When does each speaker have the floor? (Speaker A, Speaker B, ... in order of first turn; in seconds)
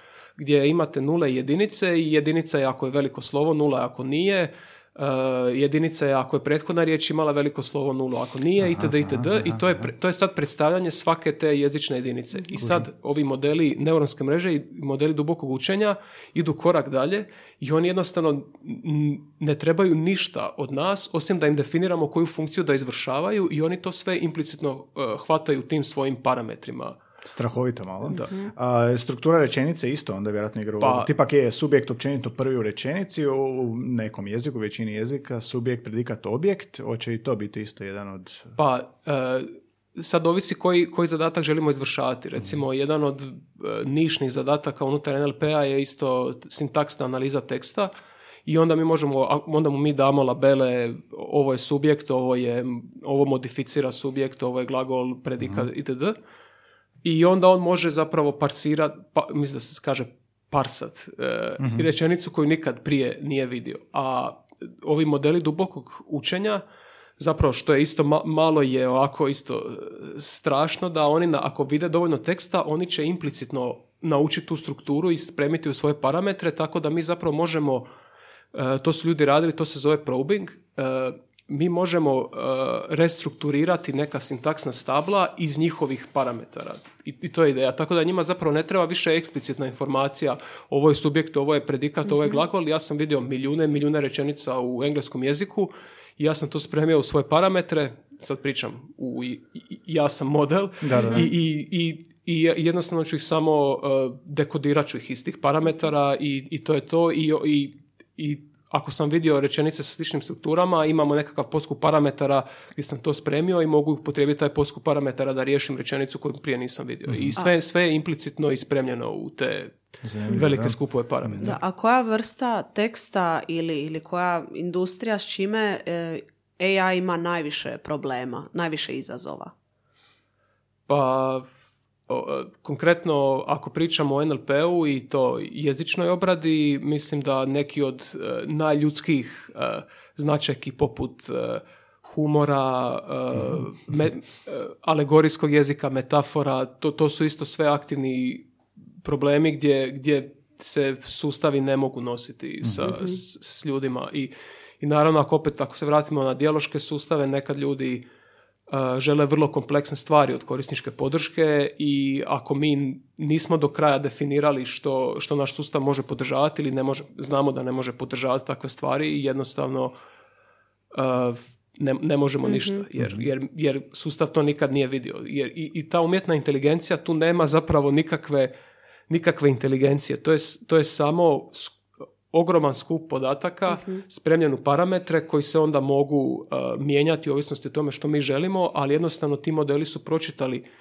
Speaker A: 0.4-27.0, 30.8-31.1, 38.6-47.9, 48.5-56.1, 57.0-66.6, 67.2-77.9, 78.5-119.7, 120.3-121.6, 130.9-131.5, 132.1-148.4, 149.0-158.0, 158.7-169.9, 170.9-178.5, 179.1-190.6
Speaker B: 8.6-9.8, 12.6-12.9, 27.2-38.5, 61.6-61.9, 100.8-101.3, 117.1-117.4, 120.0-120.8, 143.3-143.7, 173.0-173.2
Speaker C: 28.1-28.4, 121.4-129.5, 152.8-153.2, 172.4-172.8